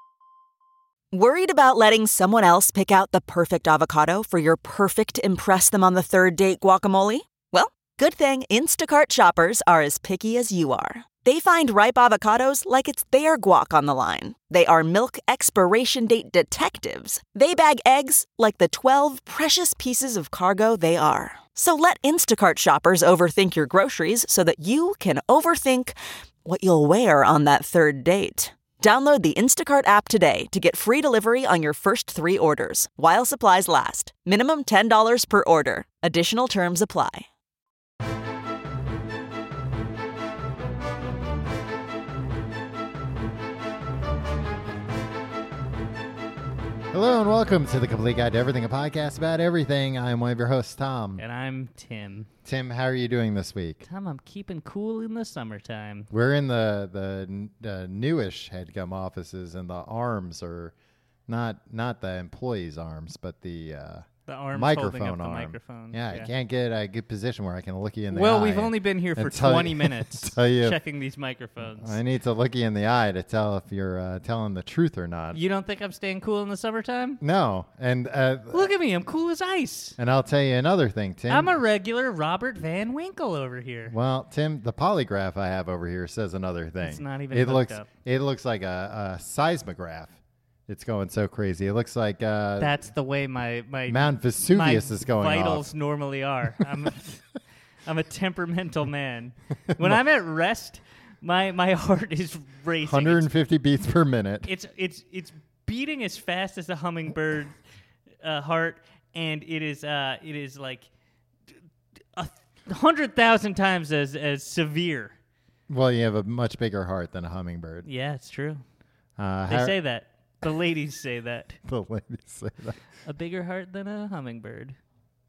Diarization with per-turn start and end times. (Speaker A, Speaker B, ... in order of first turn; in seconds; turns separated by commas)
Speaker A: 1.1-37.3, Speaker B: 46.9-51.2, Speaker C: 51.2-52.3, Speaker B: 52.5-53.8, Speaker C: 53.8-56.1, Speaker B: 56.1-60.7, Speaker B: 61.3-70.8, Speaker C: 64.3-66.3, Speaker C: 68.1-72.0, Speaker B: 71.7-75.4, Speaker C: 75.3-77.2, Speaker B: 77.2-78.7, Speaker C: 78.5-80.0, Speaker B: 80.0-81.5, Speaker C: 81.3-83.9, Speaker B: 83.9-90.2, Speaker C: 86.8-87.9, Speaker B: 90.7-92.8, Speaker C: 92.6-97.2, Speaker B: 93.9-95.7, Speaker C: 97.9-103.3, Speaker B: 102.8-104.5, Speaker C: 104.5-107.6, Speaker C: 108.2-110.9, Speaker C: 112.2-115.2, Speaker B: 115.7-117.9, Speaker C: 117.8-118.6, Speaker B: 119.2-119.8, Speaker C: 119.5-121.6, Speaker B: 121.6-122.8, Speaker C: 123.1-124.8